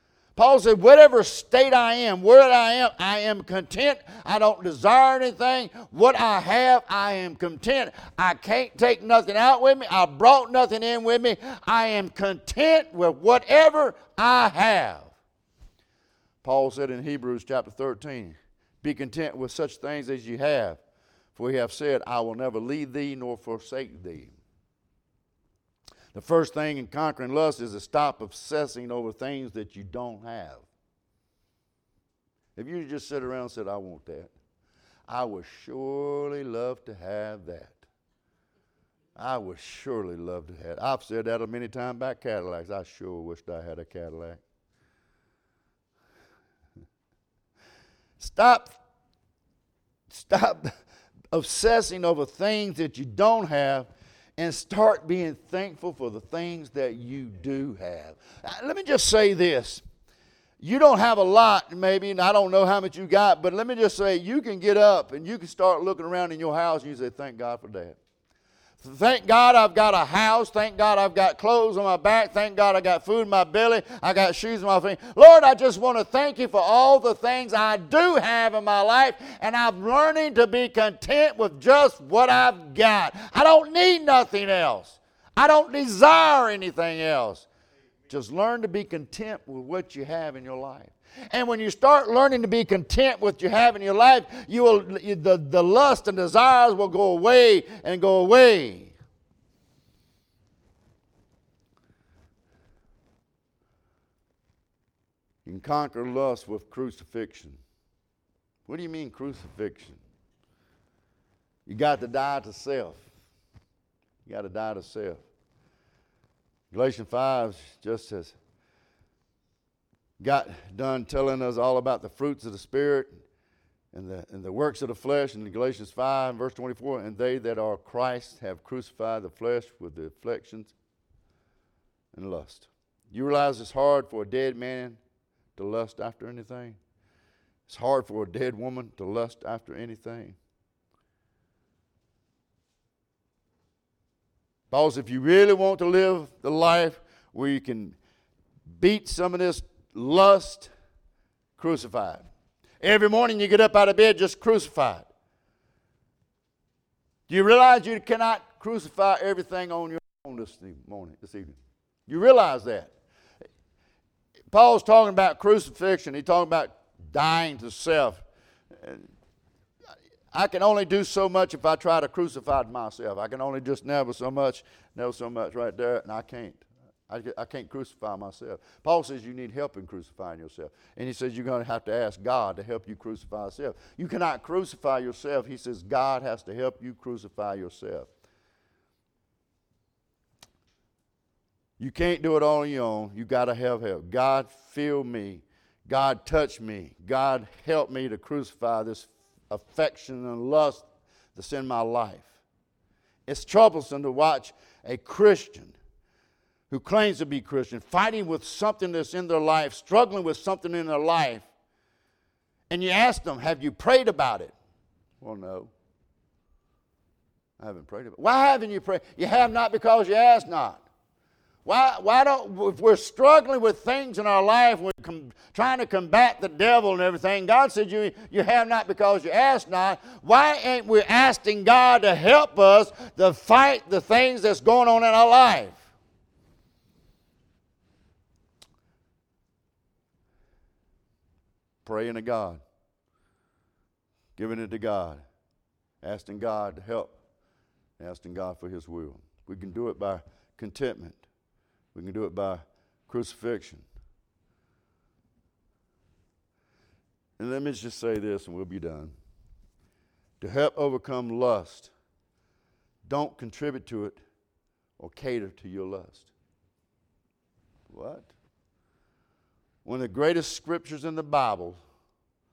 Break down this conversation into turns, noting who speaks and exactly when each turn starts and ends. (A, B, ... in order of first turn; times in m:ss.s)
0:00.4-0:15.1 A
0:16.4-0:20.8 A
0:21.3-0:24.3 A
0:26.1-0:30.6 A
0:32.6-0:34.3 A
0:35.1-0:37.8 A
0:39.2-0:44.4 A
0:48.2-0:48.8 A
0:50.1-0:50.7 A
0:51.3-0:59.8 A
1:00.6-1:08.0 A
1:08.8-1:27.5 A
1:28.1-1:38.9 A
1:45.4-1:47.6 A
1:48.7-1:50.0 A
1:51.6-1:53.0 A
1:54.2-1:55.2 A
1:56.7-1:58.3 A
2:00.2-2:03.1 A
2:03.9-2:10.7 A
2:12.1-2:15.0 A
2:15.6-2:16.8 A
2:17.7-2:20.4 A
2:24.7-2:28.0 A
2:28.7-2:30.7 A
2:31.6-2:32.3 A
2:32.8-2:35.1 A
2:37.3-2:42.9 A
2:44.5-2:48.2 A
2:48.8-2:49.0 A
2:50.3-3:08.1 A
3:11.8-3:22.3 A
3:23.3-3:25.8 A
3:26.7-3:31.5 A
3:32.7-3:34.5 A
3:35.2-3:35.7 A
3:37.6-3:40.8 A
3:41.6-3:55.9 A
4:01.8-4:02.6 A
4:04.4-4:05.2 A
4:06.0-4:07.2 A
4:08.0-4:11.2 A
4:11.9-4:13.8 A
4:17.4-4:19.1 A
4:20.4-4:21.9 A
4:23.0-4:24.2 A
4:25.0-4:26.3 A
4:27.9-4:28.3 A
4:29.8-4:31.8 A